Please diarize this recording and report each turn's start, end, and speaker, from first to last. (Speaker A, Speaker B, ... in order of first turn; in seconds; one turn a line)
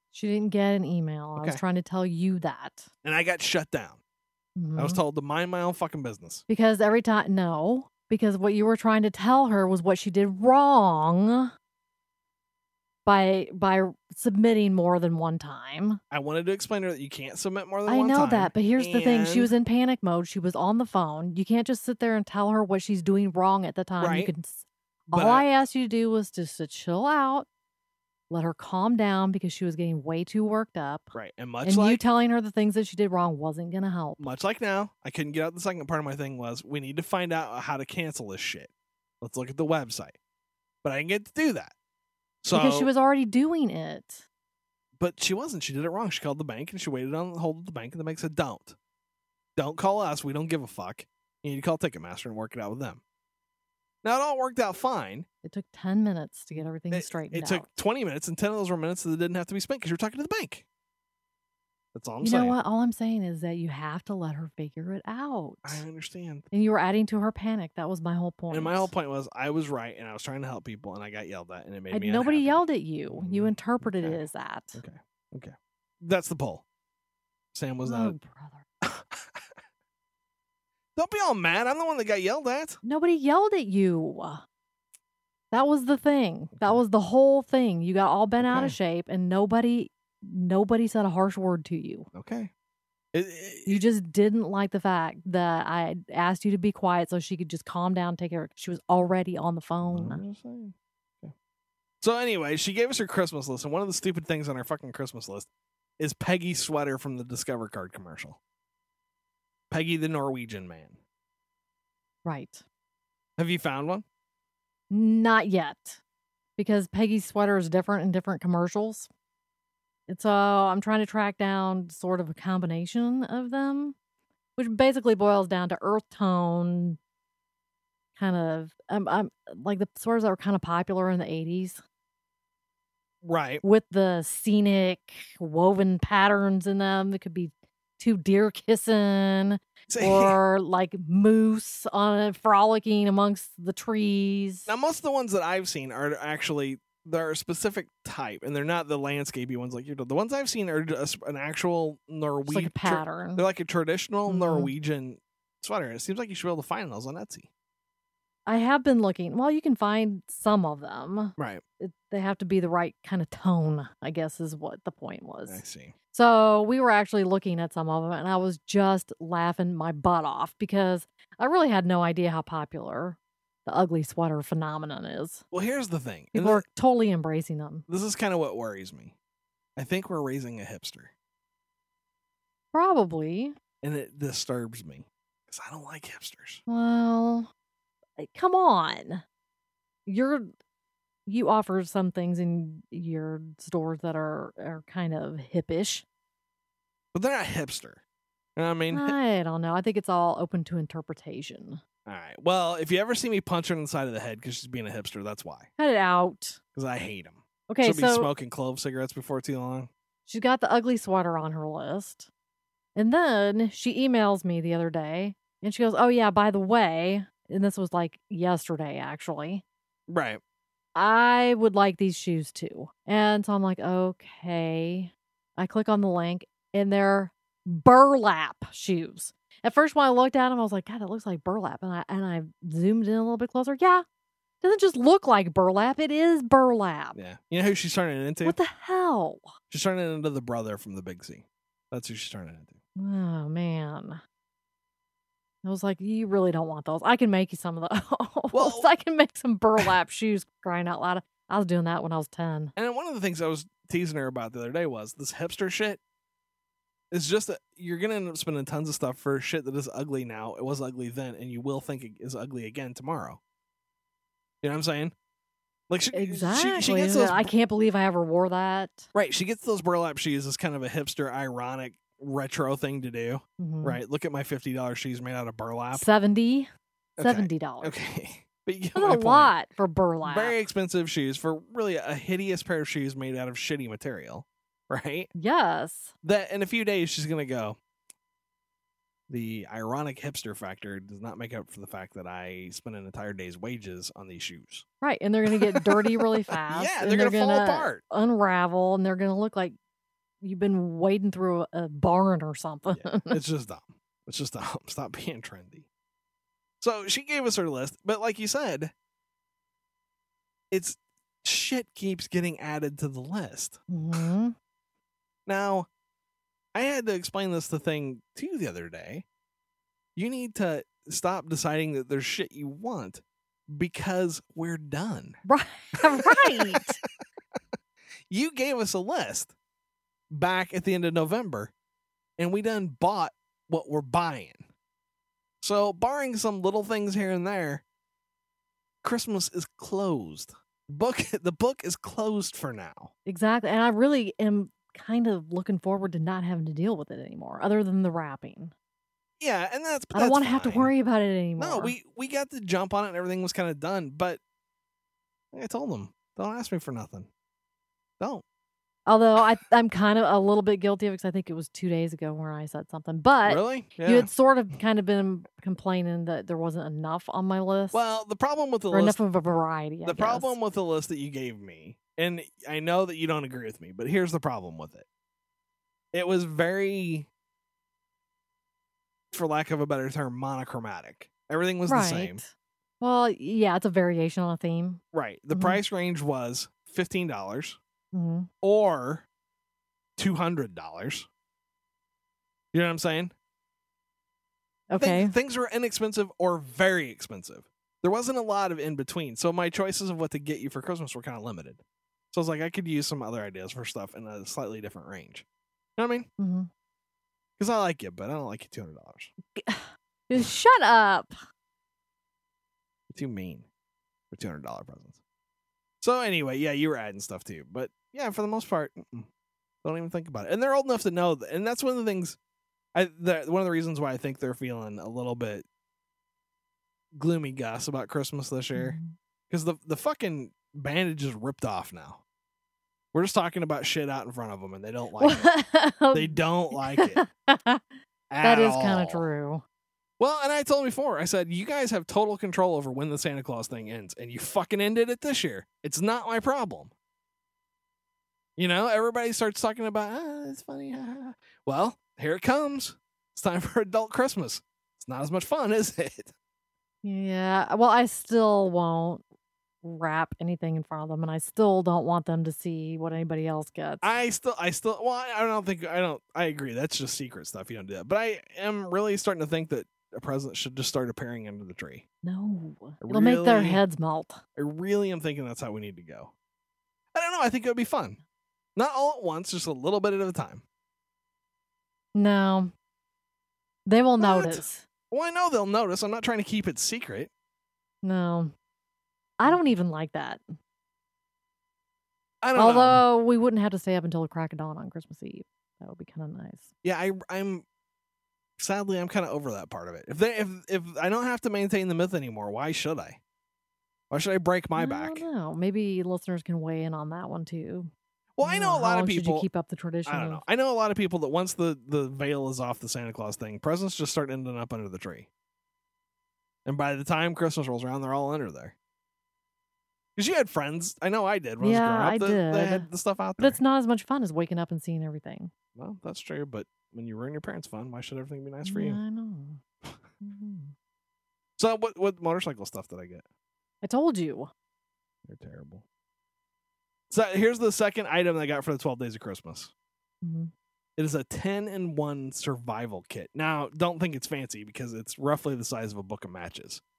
Speaker A: 0.1-2.9
Speaker B: 3.0-4.0
Speaker A: 4.6-5.0
Speaker B: 4.8-6.4
Speaker A: 6.5-11.5
Speaker A: 13.1-16.0
Speaker B: 16.1-19.5
Speaker A: 17.9-27.5
Speaker B: 24.0-24.3
Speaker B: 25.1-25.4
Speaker A: 28.3-34.2
Speaker B: 31.1-32.0
Speaker B: 34.2-38.7
Speaker B: 39.2-40.1
Speaker B: 40.8-41.7
Speaker B: 42.4-42.9
Speaker A: 42.5-44.2
Speaker B: 45.0-48.8
Speaker B: 49.5-53.0
Speaker B: 54.0-55.2
Speaker A: 55.4-57.7
Speaker B: 56.9-60.6
Speaker B: 61.9-62.6
Speaker A: 62.2-65.8
Speaker B: 65.6-66.5
Speaker A: 66.5-68.9
Speaker B: 68.5-76.6
Speaker A: 71.9-74.8
Speaker B: 77.5-78.1
Speaker A: 77.8-78.6
Speaker B: 78.8-79.4
Speaker B: 81.0-82.8
Speaker A: 82.8-84.4
Speaker A: 85.5-92.1
Speaker B: 88.4-88.8
Speaker B: 92.1-92.5
Speaker B: 93.1-93.8
Speaker A: 93.7-100.2
Speaker B: 99.8-101.3
Speaker B: 102.0-108.4
Speaker B: 109.7-111.0
Speaker A: 112.2-112.6
Speaker B: 113.4-114.0
Speaker A: 114.9-116.0
Speaker A: 116.6-119.1
Speaker A: 120.1-124.0
Speaker A: 124.6-127.0
Speaker A: 128.2-131.8
Speaker B: 133.2-133.6
Speaker A: 133.6-144.7
Speaker B: 139.9-140.4
Speaker B: 144.7-157.5
Speaker A: 152.4-153.4
Speaker A: 154.3-154.7
Speaker A: 158.4-175.4
Speaker B: 161.4-161.6
Speaker B: 165.5-165.9
Speaker B: 175.5-176.6
Speaker A: 176.3-177.8
Speaker B: 177.9-179.1
Speaker B: 179.8-181.1
Speaker A: 182.7-183.5
Speaker B: 183.8-186.6
Speaker A: 186.7-187.5
Speaker A: 188.2-189.2
Speaker A: 190.1-190.5
Speaker A: 191.2-196.0
Speaker B: 197.1-198.0
Speaker B: 198.6-199.2
Speaker A: 198.9-201.8
Speaker B: 202.1-205.7
Speaker A: 205.8-206.6
Speaker B: 206.7-209.9
Speaker A: 207.7-208.3
Speaker A: 210.3-212.3
Speaker A: 212.9-219.6
Speaker B: 220.1-220.4
Speaker A: 220.9-234.0
Speaker A: 234.6-237.2
Speaker B: 237.1-238.6
Speaker A: 238.4-239.5
Speaker B: 239.7-242.8
Speaker A: 243.0-244.2
Speaker A: 245.6-252.7
Speaker B: 248.5-248.9
Speaker B: 252.8-256.0
Speaker B: 257.1-263.4
Speaker B: 264.6-265.1
Speaker B: 265.9-267.5
Speaker A: 266.1-269.1
Speaker B: 269.1-276.1
Speaker A: 273.6-274.0
Speaker A: 275.9-276.7
Speaker B: 277.2-279.5
Speaker A: 277.2-278.0
Speaker A: 278.9-280.6
Speaker B: 280.2-285.3
Speaker A: 285.3-286.1
Speaker B: 286.2-287.8
Speaker B: 289.3-294.8
Speaker A: 295.0-299.7
Speaker B: 295.5-298.0
Speaker A: 300.4-303.4
Speaker B: 302.9-305.9
Speaker B: 306.8-308.9
Speaker B: 310.7-314.3
Speaker A: 313.9-314.5
Speaker B: 315.4-315.9
Speaker B: 316.7-319.2
Speaker B: 320.1-325.4
Speaker A: 325.4-327.0
Speaker B: 326.0-326.8
Speaker B: 328.3-329.5
Speaker B: 330.3-331.7
Speaker B: 332.4-334.6
Speaker B: 335.6-337.8
Speaker B: 339.0-343.1
Speaker A: 343.2-348.7
Speaker B: 349.4-350.9
Speaker A: 350.1-351.9
Speaker B: 351.6-354.4
Speaker B: 355.5-357.3
Speaker A: 359.1-368.0
Speaker B: 363.4-364.3
Speaker B: 367.9-369.2
Speaker A: 368.9-370.6
Speaker B: 370.0-375.0
Speaker B: 376.1-377.3
Speaker B: 379.3-382.4
Speaker A: 381.9-382.5
Speaker A: 383.0-385.8
Speaker B: 385.1-387.8
Speaker A: 388.1-388.5
Speaker B: 388.6-389.2
Speaker B: 390.2-391.3
Speaker B: 392.7-393.3
Speaker A: 394.9-395.3
Speaker B: 395.0-401.8
Speaker B: 402.3-405.4
Speaker B: 406.0-406.3
Speaker A: 406.4-406.7
Speaker B: 407.6-409.3
Speaker A: 409.5-411.4
Speaker B: 413.1-413.6
Speaker B: 414.3-415.2
Speaker B: 416.0-419.3
Speaker B: 419.8-422.4
Speaker B: 422.9-425.6
Speaker B: 427.1-429.0
Speaker A: 428.7-429.1
Speaker B: 429.5-432.2
Speaker B: 433.1-435.5
Speaker A: 435.2-437.8
Speaker B: 436.1-437.2
Speaker B: 438.3-439.2
Speaker A: 438.4-439.6
Speaker B: 440.2-446.9
Speaker B: 448.6-456.3
Speaker A: 457.0-459.2
Speaker A: 459.8-464.1
Speaker B: 464.0-472.0
Speaker A: 472.2-474.4
Speaker B: 473.0-473.8
Speaker B: 474.6-476.3
Speaker B: 477.1-478.2
Speaker B: 478.8-480.6
Speaker A: 482.1-482.7
Speaker A: 483.9-484.8
Speaker B: 484.2-487.3
Speaker A: 488.0-488.5
Speaker A: 489.4-490.4
Speaker B: 492.4-493.0
Speaker A: 492.5-496.7
Speaker B: 496.8-497.6
Speaker B: 498.6-503.2
Speaker B: 504.1-505.2
Speaker A: 504.8-507.9
Speaker B: 508.4-509.5
Speaker A: 508.4-510.4
Speaker B: 510.1-515.3
Speaker B: 516.6-518.7
Speaker B: 520.1-523.6
Speaker A: 521.6-525.5
Speaker B: 525.8-529.0
Speaker A: 528.6-529.6
Speaker A: 530.2-530.7
Speaker B: 531.6-533.2
Speaker A: 533.8-534.5
Speaker B: 535.2-535.8
Speaker B: 537.1-539.7
Speaker A: 540.2-540.5
Speaker B: 541.0-546.8